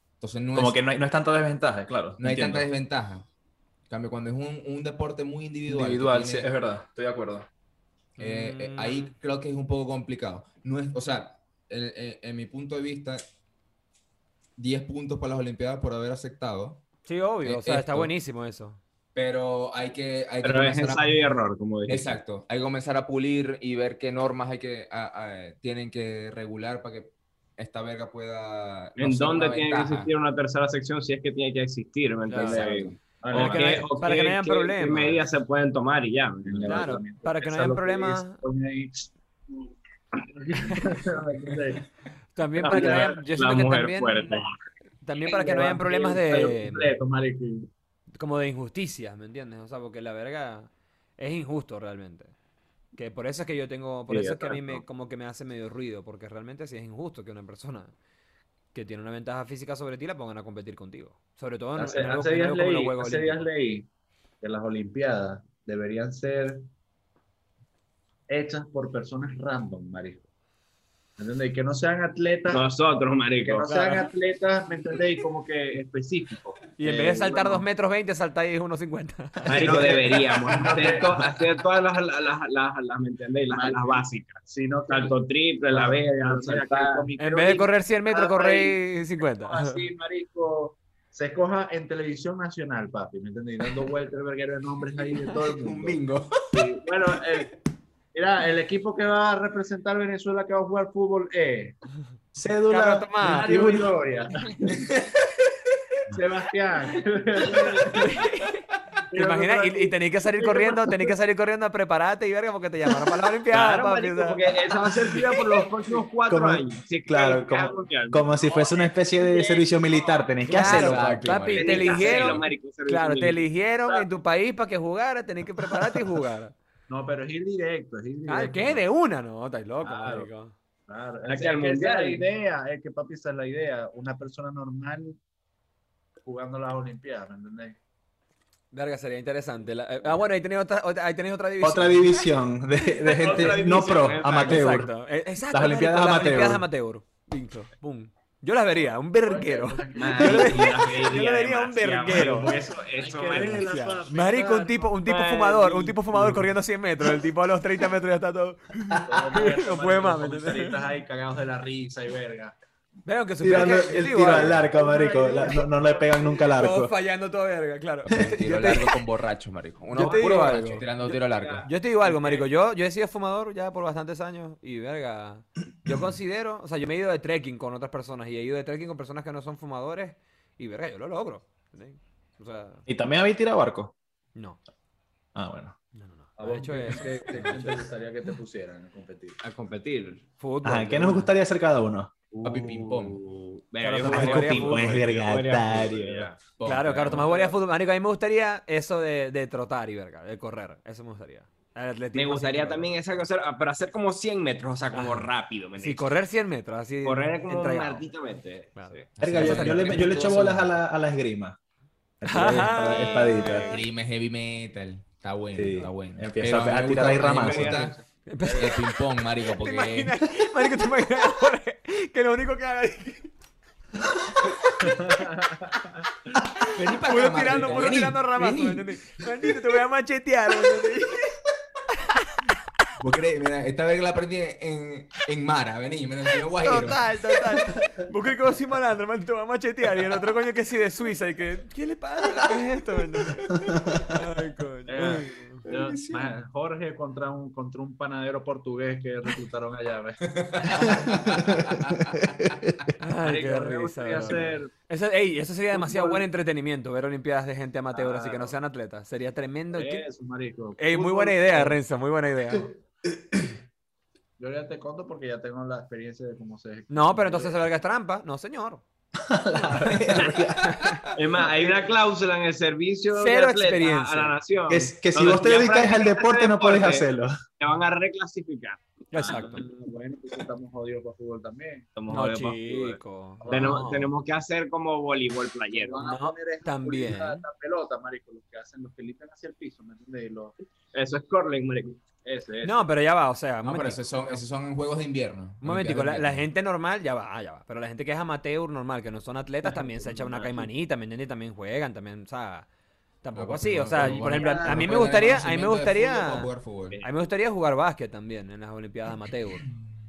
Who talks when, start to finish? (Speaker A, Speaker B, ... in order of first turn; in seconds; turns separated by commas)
Speaker A: 0.2-0.8, Speaker B: 0.5-2.6, Speaker A: 2.2-3.3, Speaker A: 3.9-6.5, Speaker B: 5.7-7.5, Speaker C: 8.2-9.1, Speaker A: 8.2-13.2, Speaker A: 14.6-16.8, Speaker C: 17.1-18.8, Speaker A: 17.4-18.1, Speaker A: 19.1-21.2, Speaker D: 20.4-22.2, Speaker A: 21.9-30.1, Speaker D: 29.0-37.0, Speaker C: 32.3-32.7, Speaker E: 32.5-33.9, Speaker C: 33.3-35.2, Speaker E: 36.4-39.1, Speaker C: 36.6-38.4, Speaker E: 40.3-41.9, Speaker C: 42.4-44.4, Speaker D: 42.6-44.5, Speaker E: 42.6-43.2, Speaker C: 45.0-46.9, Speaker E: 45.2-47.7, Speaker C: 48.2-52.3, Speaker C: 53.0-57.9, Speaker D: 54.1-54.8, Speaker C: 58.7-63.4, Speaker E: 61.8-63.9, Speaker E: 64.4-66.7, Speaker E: 68.3-70.2, Speaker E: 71.2-72.6, Speaker D: 72.5-73.7, Speaker E: 73.4-77.6, Speaker C: 73.7-74.1, Speaker C: 76.8-80.0, Speaker D: 79.5-87.1, Speaker E: 79.5-81.3, Speaker E: 83.5-85.1, Speaker E: 85.7-97.5, Speaker C: 87.2-89.8, Speaker A: 95.1-96.6, Speaker E: 98.1-101.8, Speaker B: 102.3-103.9, Speaker C: 102.7-103.5, Speaker E: 103.2-104.8, Speaker A: 104.7-105.5, Speaker E: 106.1-108.2, Speaker C: 108.0-108.5, Speaker E: 109.1-111.1, Speaker C: 109.1-114.4, Speaker D: 113.5-120.2, Speaker B: 116.3-121.3, Speaker C: 120.5-126.5, Speaker A: 120.5-122.3, Speaker D: 121.5-124.1, Speaker E: 121.8-122.2, Speaker E: 126.9-128.8, Speaker C: 128.3-130.5, Speaker E: 129.8-130.3, Speaker E: 130.9-135.2, Speaker D: 131.2-132.2, Speaker E: 136.2-137.8, Speaker C: 138.7-142.3, Speaker B: 141.6-144.9, Speaker D: 143.0-144.7, Speaker C: 144.3-152.5, Speaker B: 145.5-146.6, Speaker E: 149.2-151.2, Speaker D: 149.9-153.7, Speaker E: 152.1-154.9, Speaker C: 153.3-160.8, Speaker D: 155.1-155.8, Speaker E: 155.6-155.9, Speaker E: 159.1-162.6, Speaker C: 163.0-164.7, Speaker B: 163.4-166.9, Speaker E: 164.1-166.3, Speaker C: 166.5-168.9, Speaker A: 168.1-171.7, Speaker C: 169.9-170.8, Speaker D: 170.0-172.4, Speaker C: 171.6-182.8, Speaker B: 182.9-183.9, Speaker B: 185.3-185.8, Speaker C: 185.9-187.8, Speaker E: 186.4-189.4, Speaker D: 189.4-190.2, Speaker C: 190.4-191.3, Speaker B: 190.6-192.1, Speaker D: 192.3-196.4, Speaker A: 192.4-193.2, Speaker C: 193.8-195.1, Speaker B: 194.0-196.2, Speaker E: 195.9-196.3, Speaker A: 196.6-197.3, Speaker C: 196.6-202.9, Speaker D: 197.0-197.5, Speaker D: 202.1-206.1, Speaker C: 204.9-208.0, Speaker D: 207.0-209.1, Speaker C: 208.8-210.1, Speaker A: 209.2-210.7, Speaker B: 209.2-211.6, Speaker D: 209.7-210.1, Speaker B: 212.2-213.7, Speaker C: 212.2-213.7, Speaker D: 212.9-213.8, Speaker A: 213.7-217.9, Speaker B: 215.5-217.9, Speaker D: 217.3-217.9, Speaker E: 217.3-217.9, Speaker C: 218.2-218.9, Speaker A: 218.5-220.2, Speaker C: 219.5-223.3, Speaker C: 224.8-225.2, Speaker E: 224.8-226.0, Speaker A: 226.7-228.8, Speaker C: 226.8-231.4, Speaker C: 232.1-232.4, Speaker A: 233.0-237.1, Speaker C: 236.6-245.7, Speaker B: 243.7-244.1, Speaker E: 244.9-251.1, Speaker A: 245.7-246.3, Speaker A: 250.4-252.9, Speaker B: 251.5-252.7, Speaker C: 253.0-260.1, Speaker E: 253.2-254.7, Speaker E: 255.7-256.2, Speaker E: 257.9-258.6, Speaker E: 259.7-261.8, Speaker C: 260.8-262.7, Speaker E: 264.4-267.6, Speaker C: 266.9-268.8, Speaker B: 269.2-270.8, Speaker C: 270.6-271.0, Speaker A: 270.7-271.1, Speaker D: 271.1-277.1, Speaker E: 271.3-271.9, Speaker C: 273.1-274.4, Speaker B: 274.7-277.4, Speaker D: 277.6-279.6, Speaker C: 279.1-279.6, Speaker E: 279.2-281.9, Speaker D: 281.9-286.1, Speaker C: 282.1-284.1, Speaker E: 283.4-283.9, Speaker E: 285.7-290.5, Speaker C: 286.0-287.4, Speaker D: 290.9-292.0, Speaker E: 292.2-292.8, Speaker C: 292.6-294.0, Speaker A: 293.6-296.5, Speaker C: 295.6-302.7, Speaker D: 300.0-300.7, Speaker C: 303.2-309.6, Speaker A: 303.3-307.0, Speaker E: 304.3-304.8